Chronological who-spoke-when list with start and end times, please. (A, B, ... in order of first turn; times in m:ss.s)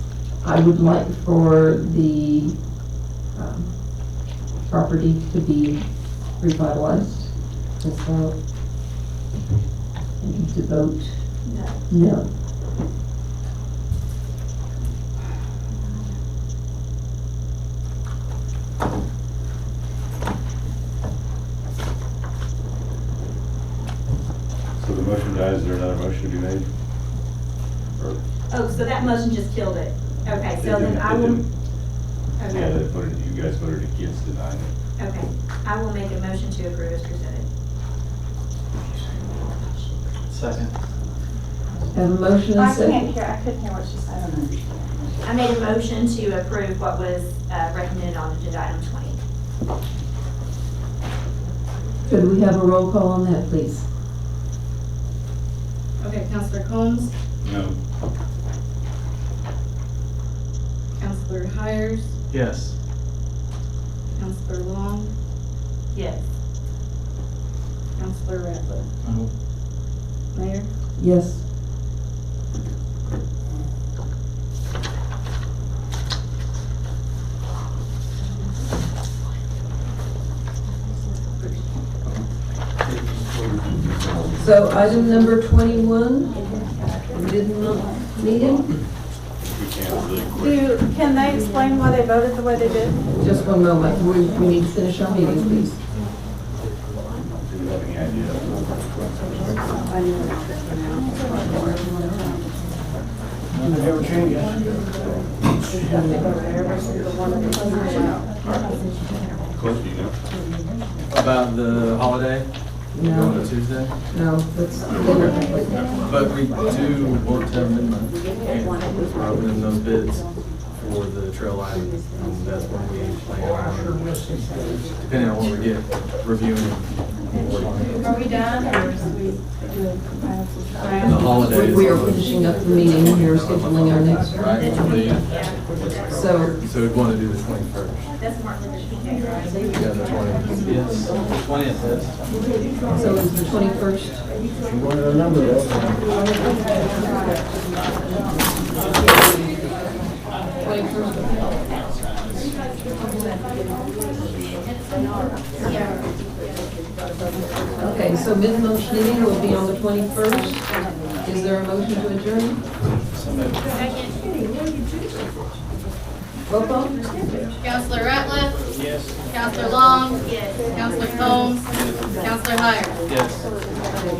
0:00.4-0:02.7 A
0:03.3-0:08.4 A
0:10.2-0:11.3 A
0:11.4-0:11.8 B
0:11.9-0:12.3 A
0:15.7-0:16.1 B
0:24.8-0:26.7 C
0:28.5-0:31.4 B
0:30.6-0:31.4 C
0:32.4-0:32.8 B
0:32.4-0:34.7 C
0:35.0-0:37.4 B
0:40.3-0:40.7 D
0:41.9-0:43.1 A
0:42.5-0:45.2 E
0:45.2-0:49.2 B
0:52.0-0:53.9 A
0:56.0-0:57.1 F
0:57.4-0:57.7 C
1:01.0-1:02.1 F
1:02.3-1:02.7 D
1:04.1-1:05.1 F
1:05.9-1:06.3 B
1:08.0-1:08.9 F
1:09.0-1:09.3 D
1:10.3-1:10.7 F
1:11.0-1:11.4 A
1:24.4-1:26.4 A
1:27.1-1:28.7 A
1:29.4-1:30.6 C
1:30.4-1:33.0 E
1:33.2-1:35.8 A
1:37.4-1:38.6 C
1:39.8-1:41.9 E
1:43.6-1:44.4 D
1:45.8-1:46.3 A
1:49.6-1:50.2 C
1:51.1-1:53.9 D
1:52.9-1:55.8 A
1:55.0-1:55.4 D
1:56.0-2:04.0 D
2:05.0-2:08.0 D
2:08.0-2:11.5 E
2:11.0-2:15.3 D
2:11.4-2:14.7 A
2:14.6-2:16.2 B
2:16.1-2:16.6 A
2:16.6-2:18.1 D
2:18.2-2:19.9 B
2:19.7-2:22.2 D
2:22.9-2:24.2 A
2:30.6-2:31.4 A
2:37.8-2:42.6 A
2:43.1-2:43.7 D
2:46.5-2:47.0 A
2:47.6-2:48.7 F
2:48.7-2:49.2 D
2:49.3-2:51.7 F
2:50.2-2:50.6 B
2:51.7-2:52.0 D
2:52.2-2:53.0 F
2:53.0-2:53.5 D